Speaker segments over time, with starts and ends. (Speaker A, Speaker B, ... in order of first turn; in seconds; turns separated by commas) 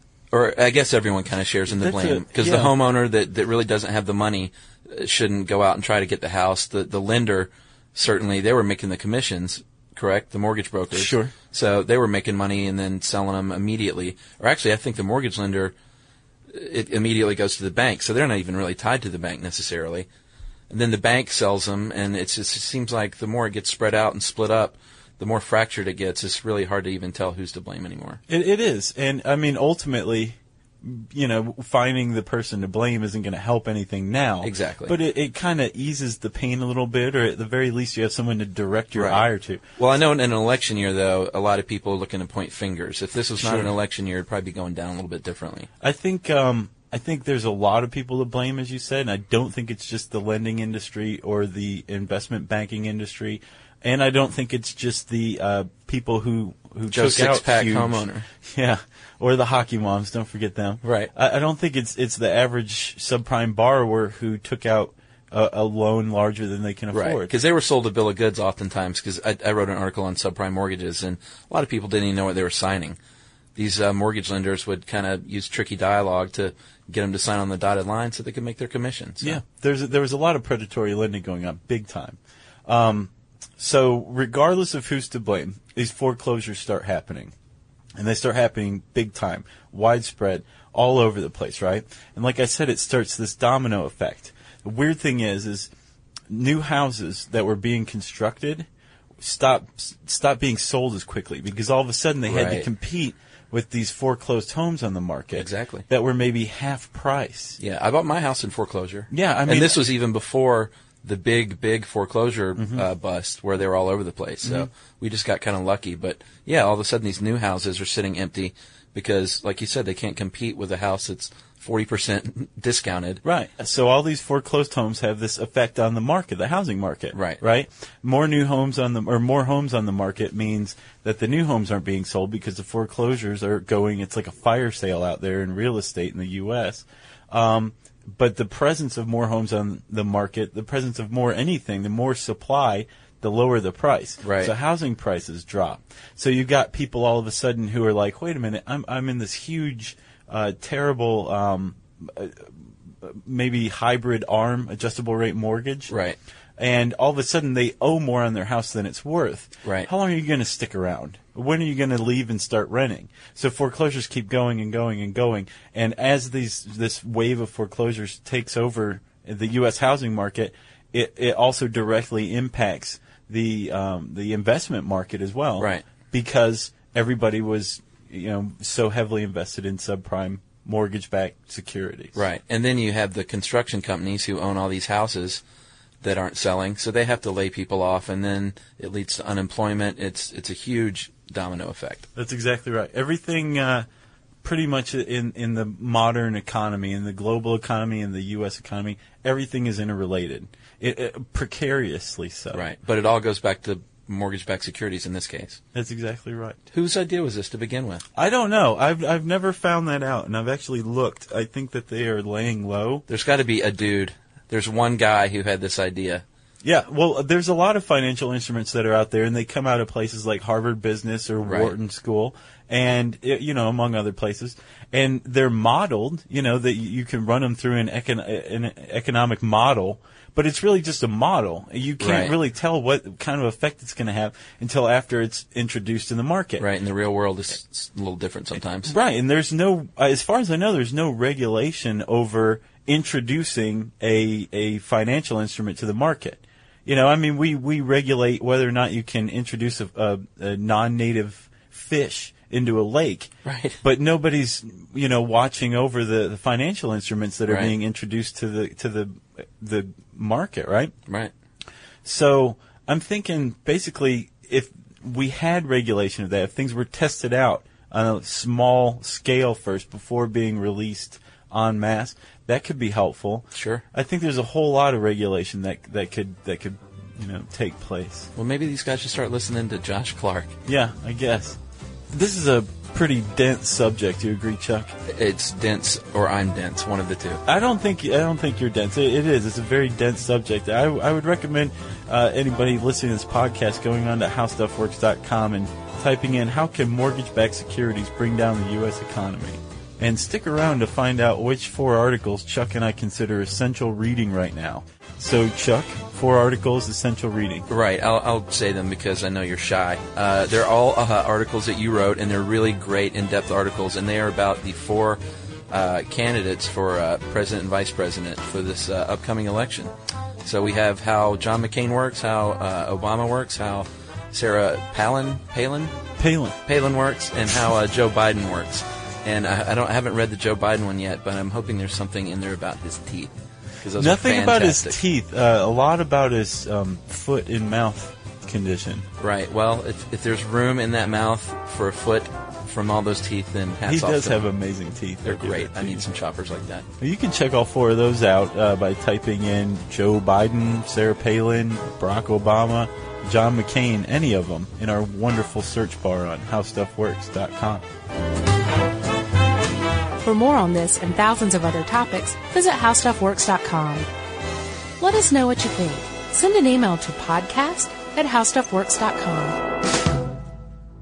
Speaker A: 0.3-15.7, Speaker B: 1.7-2.7, Speaker B: 10.9-11.3, Speaker A: 16.5-20.1, Speaker A: 20.7-28.2, Speaker B: 28.3-39.6, Speaker A: 34.4-35.0, Speaker A: 38.9-39.2, Speaker A: 39.8-45.7, Speaker B: 43.4-43.7, Speaker B: 45.8-67.3, Speaker A: 56.9-58.3, Speaker A: 60.8-61.1, Speaker A: 66.9-73.0, Speaker A: 73.5-79.4, Speaker B: 79.2-87.3, Speaker B: 88.0-95.7, Speaker B: 96.3-98.7, Speaker B: 99.2-107.6, Speaker A: 102.3-102.7, Speaker A: 105.3-105.8, Speaker A: 107.6-123.2, Speaker B: 109.1-109.8, Speaker B: 112.5-112.9, Speaker B: 114.4-114.7, Speaker B: 123.2-155.9, Speaker A: 127.1-127.4, Speaker A: 144.2-144.5, Speaker A: 155.9-156.2, Speaker B: 156.6-182.2, Speaker A: 159.6-159.9, Speaker A: 175.6-175.8, Speaker A: 182.1-185.4, Speaker A: 186.0-192.1, Speaker B: 192.2-193.8, Speaker B: 194.4-202.7, Speaker A: 202.5-205.6, Speaker B: 205.7-206.6, Speaker A: 206.7-208.0, Speaker B: 208.2-213.0, Speaker A: 213.1-216.2, Speaker B: 216.6-236.7, Speaker A: 221.4-221.7, Speaker A: 232.0-232.3, Speaker A: 236.6-238.9, Speaker B: 238.8-253.3, Speaker A: 253.4-253.8, Speaker B: 253.8-260.9, Speaker A: 257.5-257.8, Speaker A: 261.1-261.3, Speaker B: 262.0-278.3, Speaker A: 273.5-273.8, Speaker A: 278.3-280.5, Speaker B: 280.6-281.6, Speaker B: 282.1-284.9, Speaker A: 285.1-287.4, Speaker B: 287.4-307.7, Speaker A: 307.7-319.9, Speaker A: 320.4-325.9, Speaker B: 326.2-326.6, Speaker A: 326.6-335.0, Speaker B: 334.0-339.1, Speaker A: 339.2-344.5, Speaker B: 343.9-346.1, Speaker A: 345.2-346.9, Speaker B: 347.0-357.8, Speaker C: 360.2-364.1, Speaker C: 365.0-369.6